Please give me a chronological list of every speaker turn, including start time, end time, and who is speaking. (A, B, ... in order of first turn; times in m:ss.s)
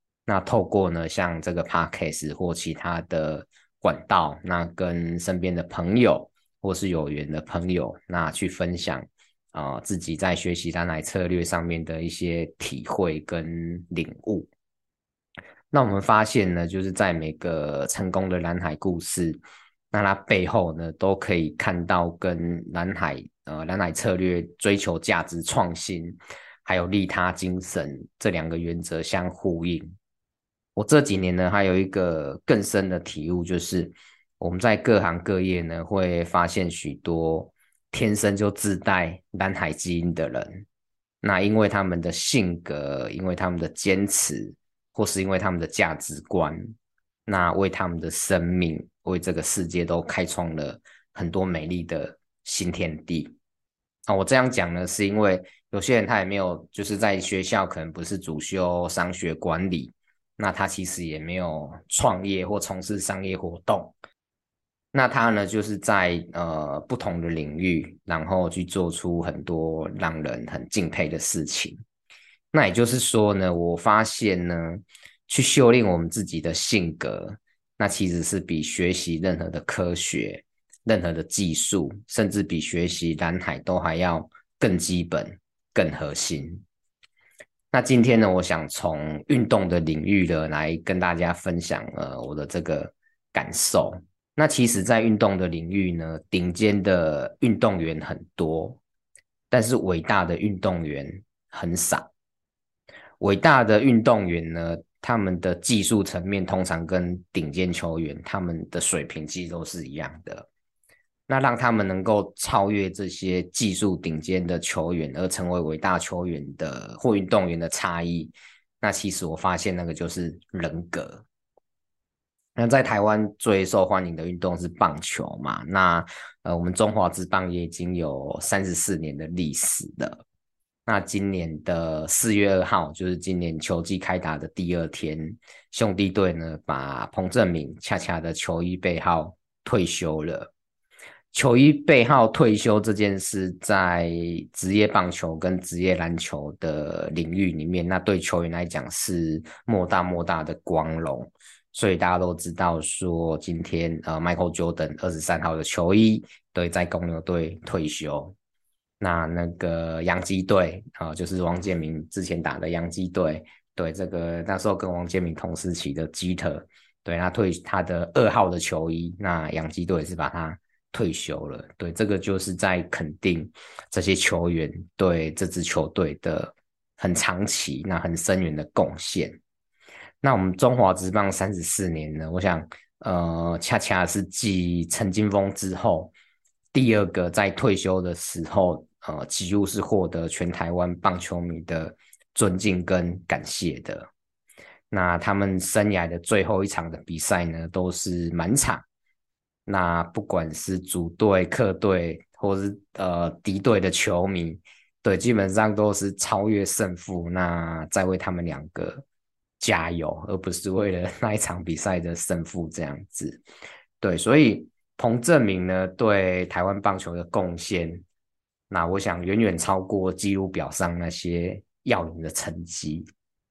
0:00.2-0:14.5 A
0:15.7-0:19.4 A
0:19.9-0:29.9 A
0:30.7-0:40.6 A
0:41.2-0:46.6 A
0:47.2-0:53.3 A
0:54.1-1:03.9 A
1:04.9-1:11.8 A
1:12.5-1:26.6 A
1:27.7-1:38.8 A
1:39.5-1:42.1 A
1:43.2-1:50.5 A
1:51.3-2:01.2 A
2:02.6-2:10.2 A
2:10.8-2:20.5 A
2:21.3-2:38.3 A
2:39.0-2:59.4 A
3:00.2-3:06.1 A
3:06.7-3:14.1 A
3:14.9-3:18.8 A
3:19.6-3:29.0 A
3:29.6-3:33.4 A
3:34.0-3:38.0 A
3:38.7-3:43.0 A